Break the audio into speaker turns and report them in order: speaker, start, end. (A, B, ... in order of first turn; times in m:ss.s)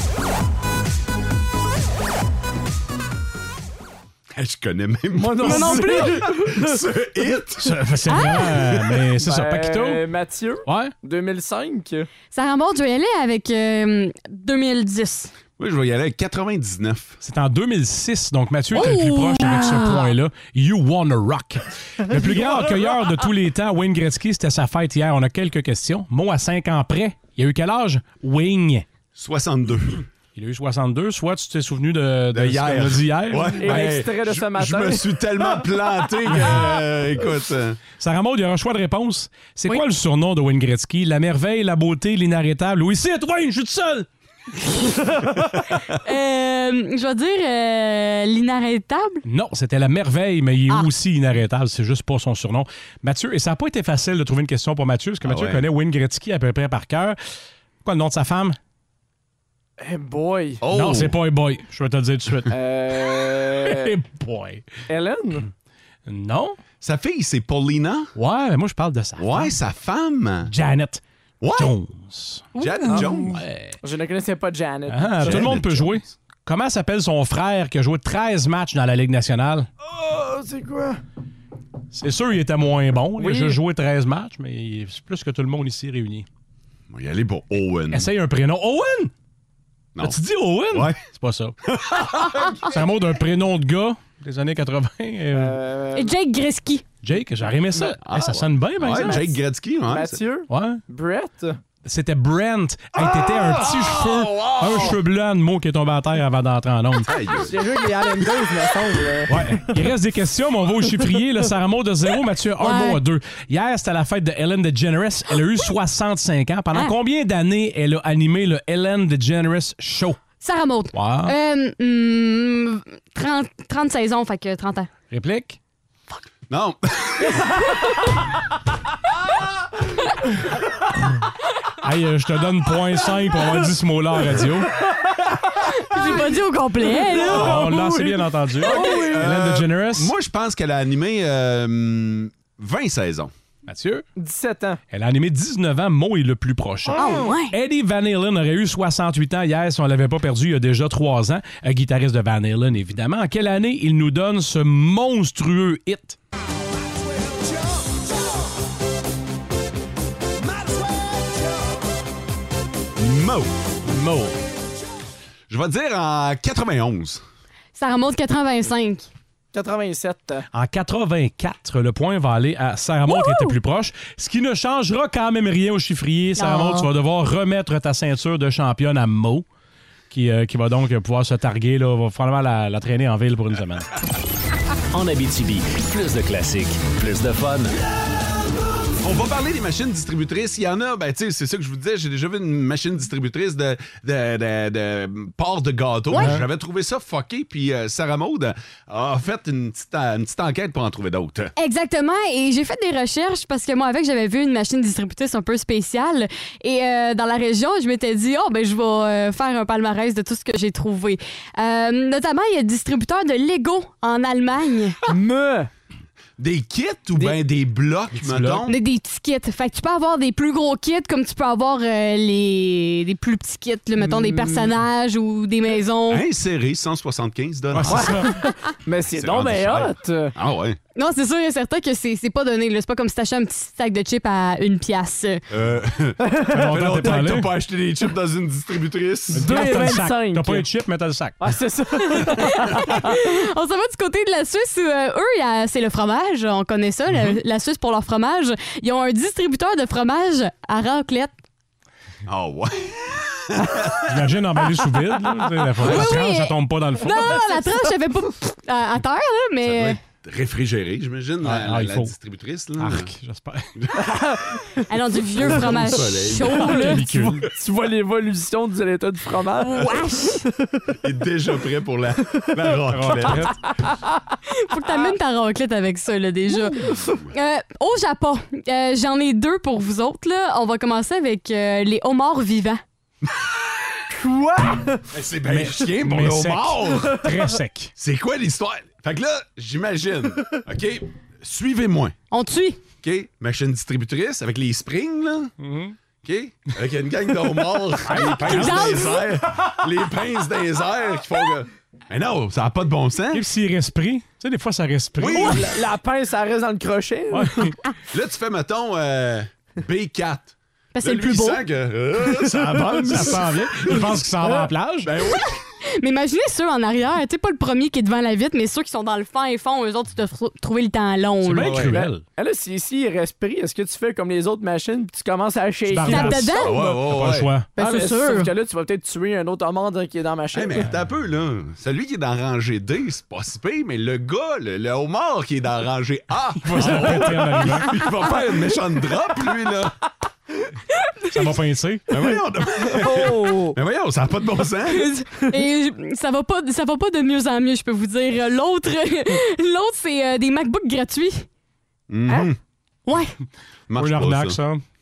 0:04.4-0:07.7 A
0:05.1-0:06.8 B
0:05.4-0:06.2 C
0:07.6-0:10.0 D
0:08.1-0:08.6 C
0:09.2-0:12.1 B
0:10.6-0:10.9 D
0:12.3-0:15.3 C
0:15.6-0:17.2 A
0:17.2-0:28.8 D
0:18.7-0:20.1 C
0:22.2-0:22.6 B
0:29.2-0:30.0 A
0:30.3-0:33.8 D
0:32.3-0:37.8 A
0:33.5-0:35.1 B
0:38.0-0:44.1 D
0:45.9-0:49.2 C
0:49.2-0:57.2 D
0:55.2-0:55.6 A
0:57.8-0:58.6 D
0:59.8-1:00.6 B
1:00.6-1:01.2 A
1:00.7-1:02.5 D
1:02.5-1:03.9 B
1:03.1-1:04.6 D
1:04.9-1:05.5 B
1:06.0-1:06.6 D
1:06.8-1:08.1 A
1:08.2-1:09.5 D
1:09.2-1:10.5 A
1:10.4-1:11.0 D
1:11.4-1:11.7 A
1:11.5-1:13.8 D
1:12.6-1:13.0 C
1:12.6-1:13.4 A
1:12.9-1:13.2 B
1:13.8-1:15.6 B
1:14.9-1:19.7 D
1:15.2-1:16.0 A
1:19.8-1:21.0 B
1:21.9-1:26.2 D
1:23.2-1:23.6 B
1:26.9-1:28.1 A
1:27.9-1:29.1 D
1:30.0-1:31.5 D
1:30.7-1:31.0 A
1:31.7-1:32.7 A
1:32.5-1:35.6 D
1:35.3-1:36.1 B
1:35.9-1:36.8 C
1:37.0-1:39.3 D
1:37.7-1:40.2 A
1:38.9-1:39.3 B
1:39.8-1:41.6 B
1:40.5-1:40.8 D
1:41.8-1:47.1 D
1:43.0-1:45.0 A
1:47.0-1:47.8 A
1:47.4-1:49.4 B
1:49.3-2:00.2 D
1:52.6-1:53.0 C
2:00.4-2:04.9 C
2:00.9-2:01.3 D
2:05.1-2:05.6 D
2:06.5-2:07.6 A
2:11.8-2:14.7 D
2:15.7-2:17.6 C
2:17.0-2:19.4 B
2:17.3-2:17.6 A
2:17.3-2:20.1 D
2:18.6-2:23.3 A
2:23.7-2:24.0 D
2:24.2-2:24.8 B
2:24.9-2:36.2 D
2:27.0-2:27.5 C
2:43.0-2:43.5 A
2:43.8-2:44.3 D
2:45.5-2:47.2 A
2:47.7-2:49.1 C
2:49.5-2:50.5 B
2:50.5-2:59.4 D
2:53.1-2:53.5 C
2:56.4-2:56.9 C
3:00.1-3:03.9 D
3:04.9-3:07.7 E
3:09.0-3:21.5 A
3:16.1-3:16.5 D
3:21.6-3:35.0 C
3:35.1-3:35.7 B
3:36.4-3:38.7 A
3:38.2-3:38.7 D
3:38.7-3:46.2 C
3:44.0-3:44.7 B
3:46.1-3:48.2 A
3:47.7-3:48.4 D
3:47.9-3:50.3 B
3:49.1-3:50.8 A
3:51.0-3:55.4 C
3:55.5-3:59.8 A
3:56.5-3:57.5 D
3:59.3-4:01.4 D
3:59.4-4:00.7 B
4:01.4-4:03.1 B
4:02.1-4:11.3 C
4:12.2-4:14.0 A
4:14.1-4:17.5 D
4:15.8-4:20.0 C
4:15.8-4:16.1 A
4:19.6-4:23.1 A
4:21.4-4:22.1 D
4:22.8-4:23.7 D
4:23.8-4:24.2 A
4:24.0-4:24.4 B
4:24.9-4:27.2 C
4:25.4-4:26.8 A
4:26.7-4:27.4 D
4:27.5-4:30.0 B
4:29.6-4:30.4 C
4:31.0-4:33.5 A
4:32.9-4:33.6 D
4:34.5-4:42.8 C
4:36.6-4:37.0 B
4:44.1-4:45.0 B
4:45.1-4:47.2 A
4:45.5-4:47.9 D
4:48.0-4:52.2 A
4:52.3-4:52.8 C
4:53.0-4:55.5 A
4:55.6-4:55.9 D
4:56.2-5:03.4 A
4:58.0-4:59.2 D
4:58.4-4:59.2 C
5:03.3-5:05.7 D
5:05.2-5:05.7 A
5:05.2-5:07.6 B
5:07.3-5:07.7 D
5:08.1-5:14.1 A
5:10.9-5:11.6 C
5:12.4-5:15.1 D
5:14.4-5:14.7 B
5:15.0-5:15.6 A
5:16.0-5:21.8 C
5:21.4-5:22.2 D
5:21.6-5:22.0 A
5:21.9-5:26.4 B
5:25.9-5:27.7 D
5:26.1-5:26.7 C
5:26.6-5:27.5 A
5:27.8-5:30.9 B
5:27.8-5:28.5 C
5:30.5-5:40.0 A
5:36.6-5:37.9 D
5:41.3-5:42.1 D
5:42.1-5:45.1 A
5:42.9-5:43.8 B
5:44.9-5:51.4 C
5:52.1-5:52.6 A
5:53.1-5:53.3 C
5:53.9-5:54.6 A
5:54.0-5:54.8 D